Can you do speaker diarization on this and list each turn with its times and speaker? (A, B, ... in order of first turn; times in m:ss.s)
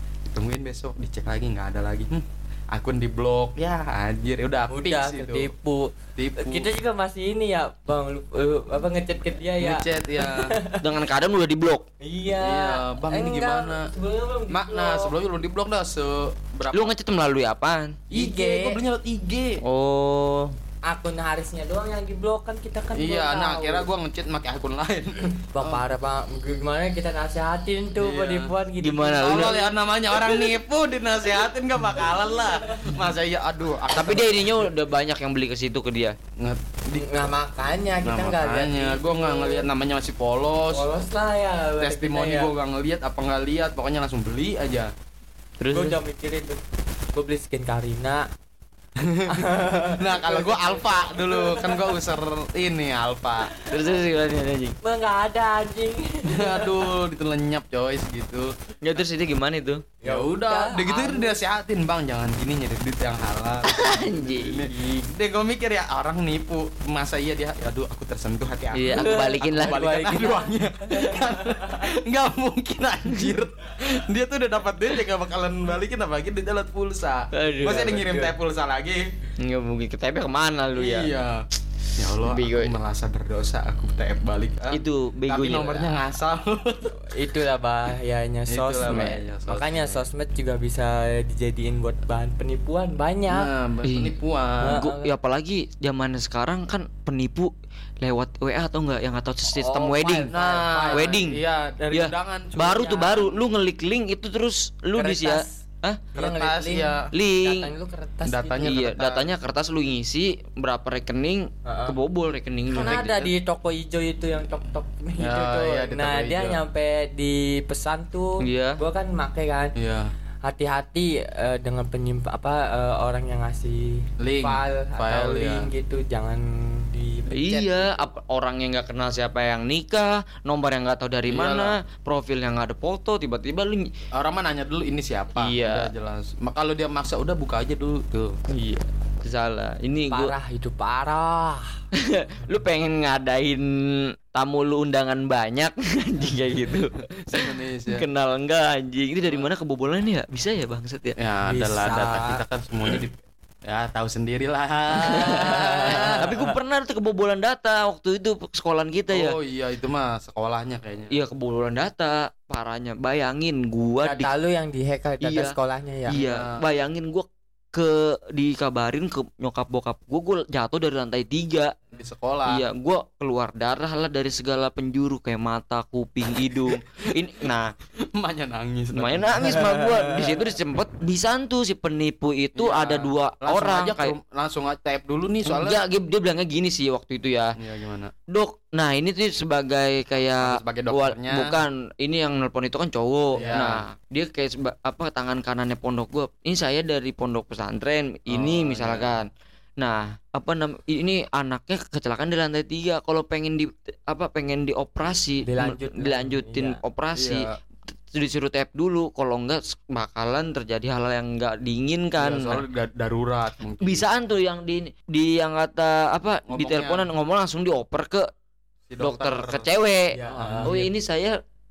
0:00.3-0:05.5 A
0:04.7-0:10.9 B
0:06.2-0:06.7 A
0:09.6-0:10.6 A
0:10.8-0:11.8 C
0:12.0-0:15.1 B
0:12.4-0:13.9 A
0:14.5-0:16.9 A
0:16.7-0:18.0 C
0:18.1-0:19.6 A
0:18.1-0:18.8 B
0:19.6-0:20.6 C
0:20.8-0:23.9 B
0:22.9-0:25.8 A
0:25.6-0:29.7 B
0:28.0-0:28.5 A
0:28.8-0:29.7 C
0:29.2-0:34.7 A
0:33.9-0:36.2 C
0:36.4-0:37.3 A
0:37.0-0:39.7 B
0:38.0-0:40.9 A
0:40.7-0:42.5 B
0:41.8-0:44.9 A
0:45.6-0:46.0 C
0:45.7-0:46.6 B
0:47.1-0:48.2 B
0:49.0-0:53.5 A
0:49.3-0:52.1 B
0:53.6-0:54.0 B
0:53.7-0:54.8 C
0:54.8-0:56.9 B
0:56.2-0:58.5 A
0:58.8-0:59.9 C
1:00.0-1:01.4 B
1:00.0-1:19.0 A
1:03.6-1:04.9 C
1:08.7-1:10.1 C
1:08.9-1:11.9 B
1:17.3-1:18.3 C
1:19.4-1:21.1 C
1:20.8-1:21.4 A
1:22.0-1:27.0 A
1:22.2-1:22.8 C
1:24.7-1:26.0 C
1:27.0-1:33.5 B
1:28.5-1:30.0 A
1:28.9-1:29.2 C
1:33.3-1:34.8 A
1:33.8-1:34.2 C
1:34.6-1:35.1 B
1:34.7-1:40.3 C
1:39.5-1:41.2 B
1:40.3-1:43.3 A
1:40.9-1:41.4 C
1:41.9-1:46.0 C
1:42.8-1:43.2 B
1:45.0-1:48.8 B
1:46.2-1:47.1 A
1:47.1-1:47.7 C
1:48.2-1:49.3 A
1:48.6-1:53.3 C
1:51.6-1:52.0 B
1:52.7-1:59.7 B
1:55.2-1:56.6 A
1:58.4-1:58.8 C
1:59.8-2:00.1 A
2:00.4-2:08.0 B
2:04.2-2:05.7 A
2:07.3-2:13.9 C
2:11.3-2:11.8 A
2:14.2-2:18.4 A
2:15.4-2:15.9 C
2:18.5-2:20.4 C
2:20.1-2:21.8 B
2:22.0-2:31.2 C
2:27.1-2:28.0 A
2:31.2-2:36.3 A
2:31.5-2:32.4 B
2:35.0-2:39.4 C
2:35.2-2:36.3 B
2:39.1-2:41.2 A
2:41.1-2:44.3 C
2:44.0-2:46.2 B
2:45.2-2:51.8 C
2:46.1-2:46.6 A
2:51.9-2:52.6 A
2:52.5-2:57.7 C
2:58.2-2:59.8 A
2:58.9-3:04.2 C
3:02.6-3:05.8 A
3:05.4-3:07.6 C
3:07.6-3:08.1 A
3:08.3-3:19.3 C
3:10.4-3:11.6 A
3:13.4-3:13.8 A
3:18.3-3:19.2 A
3:19.8-3:27.5 C
3:25.4-3:26.8 B
3:27.1-3:27.6 A
3:28.1-3:32.6 C
3:32.2-3:34.1 A
3:33.8-3:38.3 C
3:36.5-3:37.1 A
3:38.9-3:39.7 A
3:39.0-3:41.4 C
3:40.1-3:40.8 B
3:40.3-3:40.8 A